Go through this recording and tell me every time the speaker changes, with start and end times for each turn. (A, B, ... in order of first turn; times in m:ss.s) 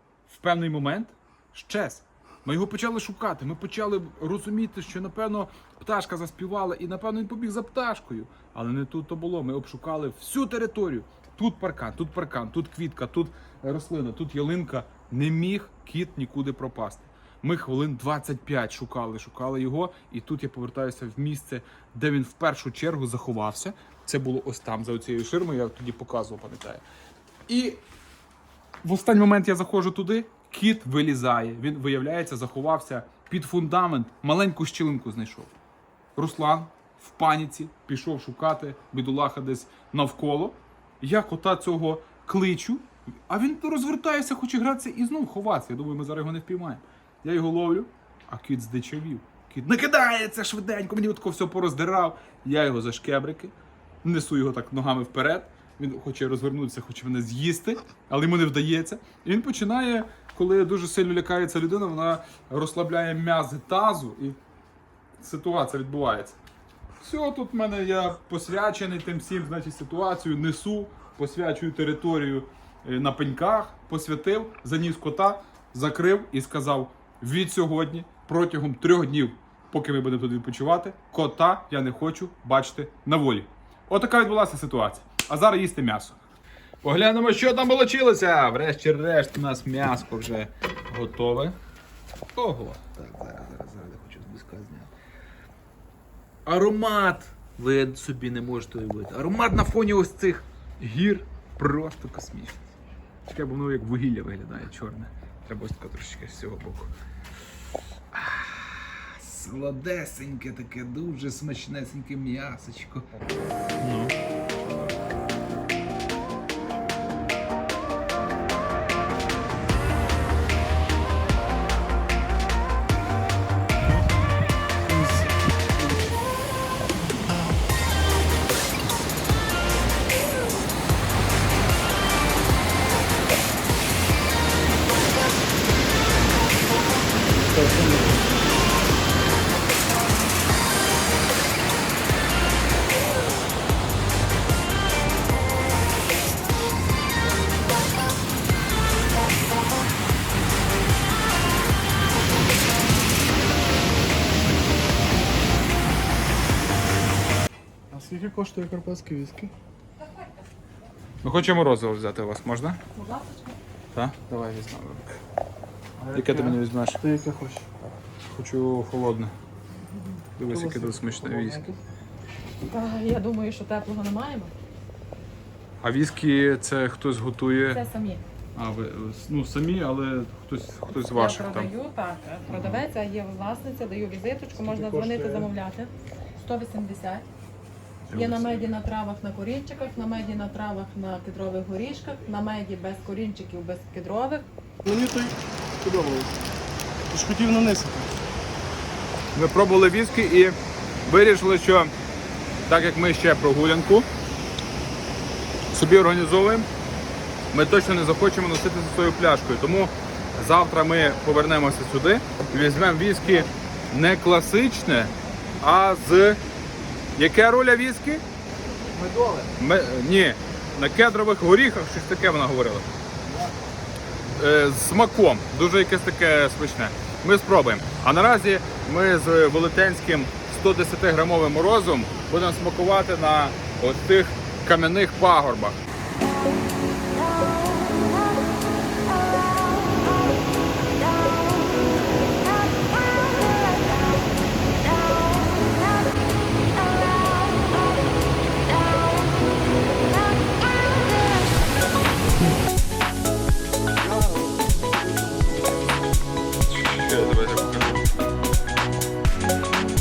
0:00.3-0:26.8 A
0:27.5-0:27.8 A
0:28.8-0:35.5 A
0:36.2-1:04.4 A
1:05.2-1:06.4 A
1:07.0-1:26.2 A
1:26.8-1:31.6 A
1:32.4-1:34.9 A
1:36.5-1:42.6 A
1:43.2-1:46.9 A
1:48.1-1:53.1 A
1:53.8-1:55.0 A
1:56.7-1:57.1 A
2:17.5-2:18.1 B
2:37.9-2:39.5 B
2:41.2-2:42.8 A
2:42.9-2:43.6 C
2:43.9-2:45.2 A
2:46.0-2:47.7 B
2:46.1-2:47.0 A
2:48.3-2:49.3 A
2:50.4-2:51.6 A
2:50.5-2:51.8 B
2:52.6-2:54.5 C
2:55.8-2:57.8 A
2:57.6-2:58.2 C
2:58.6-3:01.7 A
3:01.1-3:07.3 C
3:02.5-3:02.8 A
3:04.6-3:05.5 B
3:08.1-3:08.7 A
3:08.1-3:14.5 C
3:14.8-3:16.4 B
3:17.1-3:18.1 B
3:19.3-3:21.9 A
3:22.7-3:24.1 A
3:25.7-3:26.7 A
3:27.5-3:36.4 A
3:37.2-3:38.2 A
3:39.0-3:39.5 B
3:39.6-3:42.9 A
3:44.4-3:55.8 A
4:14.0-4:15.8 B
4:16.7-4:18.1 A